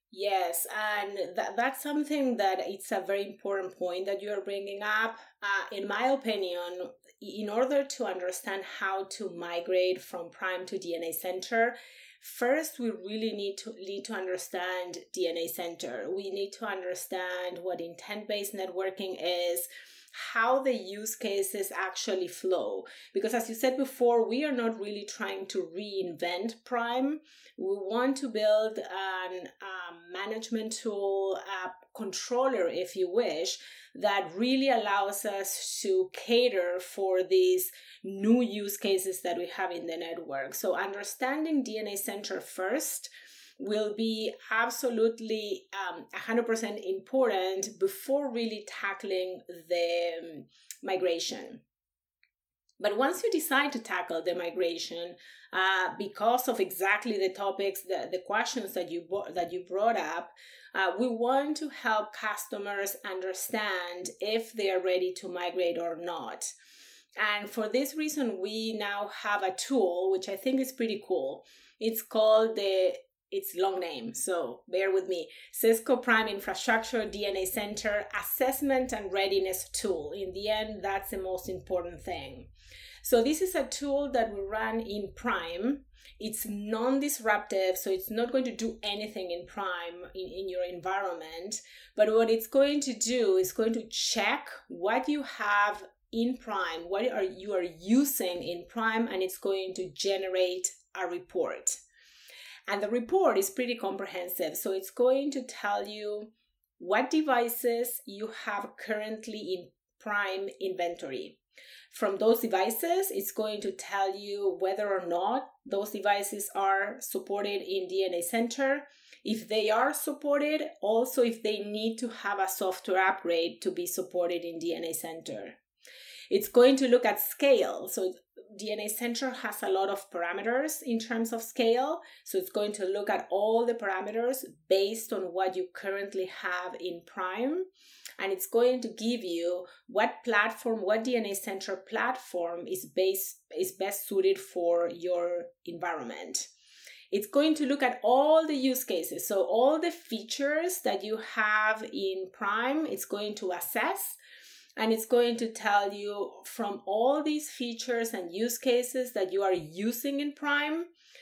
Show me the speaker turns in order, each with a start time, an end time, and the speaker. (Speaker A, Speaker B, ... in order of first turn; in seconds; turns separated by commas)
Speaker A: 0.1-51.6, Speaker A: 52.8-66.5, Speaker A: 67.2-82.5, Speaker A: 83.0-101.8, Speaker A: 102.7-111.4, Speaker A: 111.9-125.6, Speaker A: 126.3-137.7, Speaker A: 138.2-146.5, Speaker A: 147.1-154.2, Speaker A: 154.8-160.9